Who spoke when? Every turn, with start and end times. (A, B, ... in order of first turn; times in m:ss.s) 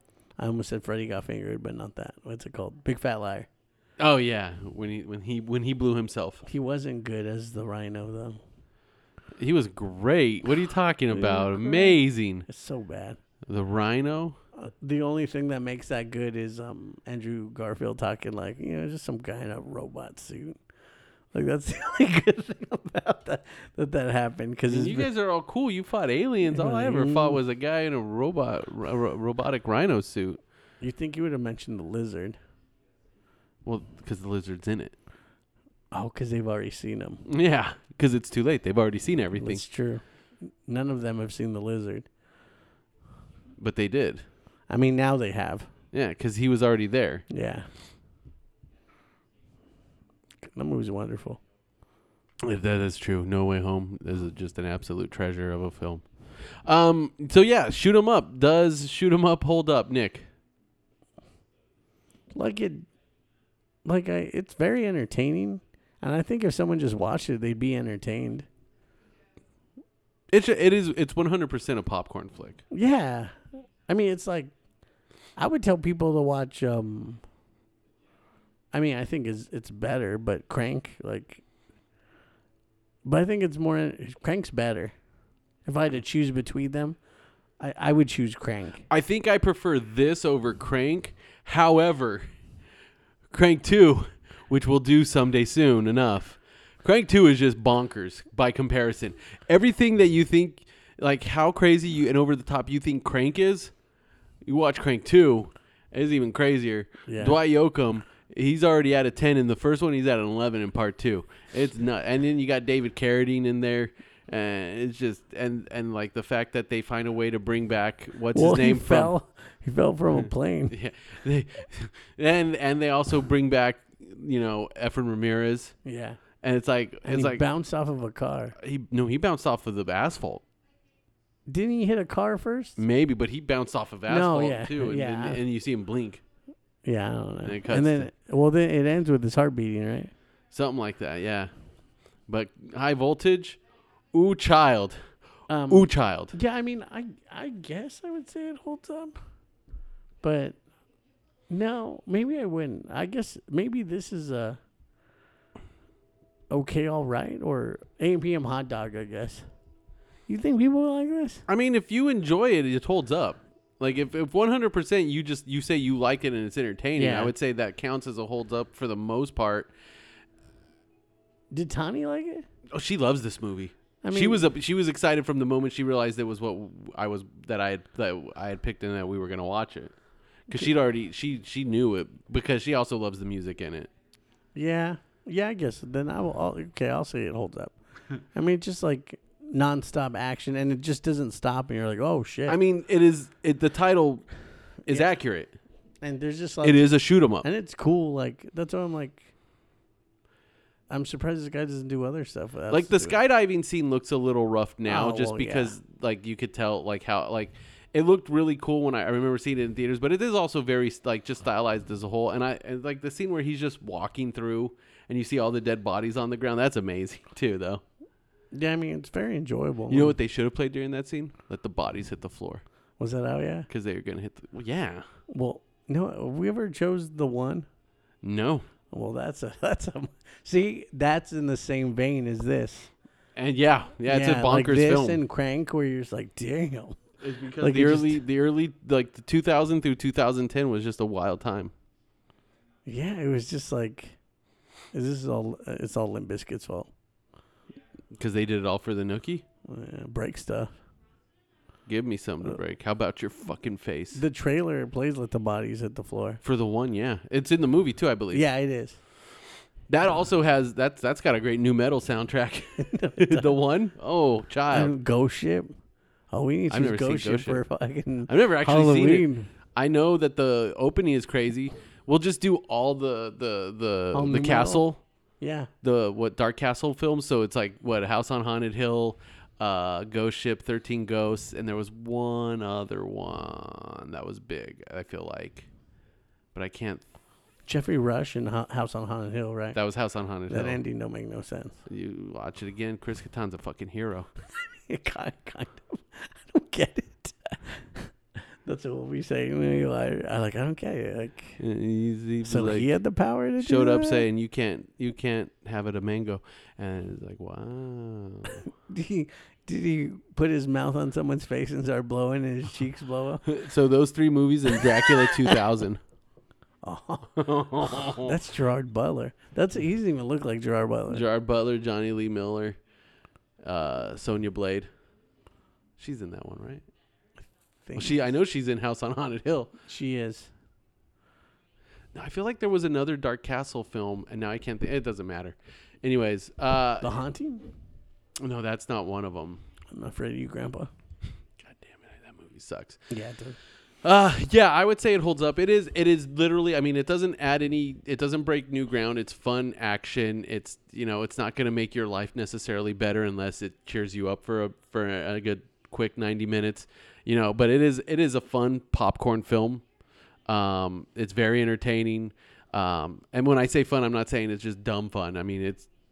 0:00.4-0:03.5 A
0:04.0-0:06.4 B
0:06.4-0:08.4 A
0:09.4-0:12.4 B
0:11.1-0:13.2 A
0:13.5-0:14.4 B
0:14.6-0:20.6 A
0:21.3-0:25.1 A
0:24.7-0:30.4 B
0:26.5-0:27.4 A
0:30.8-0:32.4 A
0:33.6-0:34.9 B
0:35.9-0:37.2 A
0:37.2-0:39.6 B
0:39.4-0:40.0 A
0:40.6-0:42.1 A
0:43.6-0:44.2 B
0:44.7-0:45.7 A
0:45.9-0:47.2 B
0:47.3-0:47.7 A
0:50.5-0:51.4 A
0:52.4-1:00.3 B
1:02.3-1:02.9 A
1:03.8-1:08.5 A
1:10.3-1:12.6 B
1:12.7-1:13.3 A
1:13.9-1:14.5 A
1:15.4-1:17.2 A
1:18.7-1:21.4 A
1:23.0-1:24.9 A
1:25.6-1:27.0 A
1:27.6-1:28.8 A
1:28.9-1:32.3 B
1:33.3-1:43.7 B
1:44.4-1:59.1 B
1:47.1-1:47.4 A
1:58.3-2:00.7 A
2:00.2-2:05.7 B
2:05.8-2:06.2 A
2:06.4-2:07.4 B
2:07.0-2:08.5 A
2:08.6-2:10.4 B
2:11.5-2:12.8 A
2:12.8-2:16.2 B
2:14.1-2:15.4 A
2:16.8-2:20.1 A
2:17.4-2:18.1 B
2:20.5-2:21.5 B
2:22.3-2:23.6 B
2:24.1-2:25.0 B
2:25.5-2:29.2 A
2:25.7-2:26.3 B
2:30.2-2:30.6 A
2:31.5-2:34.6 A
2:36.5-2:39.4 A
2:40.3-2:41.4 A
2:41.5-2:49.7 B
2:47.0-2:47.3 A
2:51.5-2:52.4 A
2:52.7-2:59.9 B
2:54.0-2:54.4 A
3:00.5-3:03.9 B
3:04.5-3:07.7 A
3:08.3-3:12.6 A
3:12.5-3:14.3 B
3:14.8-3:15.6 B
3:14.9-3:15.1 A
3:16.0-3:19.3 A
3:16.6-3:17.4 B
3:20.9-3:23.2 A
3:22.7-3:37.8 B
3:24.9-3:25.8 A
3:38.5-3:40.2 A
3:39.9-3:42.6 B
3:43.0-3:43.7 A
3:43.7-3:45.0 B
3:45.3-3:47.7 A
3:48.2-3:48.7 B
3:48.9-3:52.9 A
3:53.4-3:55.2 B
3:54.0-3:57.0 A
3:57.2-4:01.7 B
3:57.6-3:58.2 A
4:02.8-4:04.2 A
4:04.9-4:06.9 A
4:08.1-4:09.4 B
4:09.6-4:10.7 A
4:11.9-4:14.2 B
4:14.1-4:16.4 A
4:16.4-4:18.4 B
4:18.3-4:19.0 A
4:19.9-4:24.9 B
4:22.8-4:23.6 A
4:24.7-4:25.7 A
4:26.3-4:29.5 A
4:26.7-4:27.6 B
4:28.3-4:35.0 B
4:34.1-4:34.9 A
4:35.4-4:35.7 A
4:35.8-4:45.7 B
4:46.5-4:47.0 B
4:47.6-4:49.8 A
4:49.7-4:50.8 B
4:50.5-4:51.8 A
4:51.9-4:54.3 B
4:54.6-4:58.1 A
4:58.6-5:01.6 A
5:01.6-5:02.9 B
5:02.4-5:04.2 A
5:03.6-5:08.6 B
5:08.6-5:13.5 A
5:13.4-5:16.0 B
5:15.2-5:15.5 A
5:16.8-5:21.2 A
5:17.4-5:18.3 B
5:21.1-5:22.8 B
5:23.6-5:24.9 B
5:26.0-5:26.8 B
5:27.8-5:28.2 A
5:28.0-5:29.7 B
5:29.9-5:30.5 A
5:32.1-5:37.1 B
5:37.0-5:37.7 A
5:38.4-5:39.6 B
5:39.9-5:40.9 A
5:41.6-5:43.0 B
5:43.1-5:43.6 A
5:44.0-5:59.8 B
6:00.5-6:05.9 B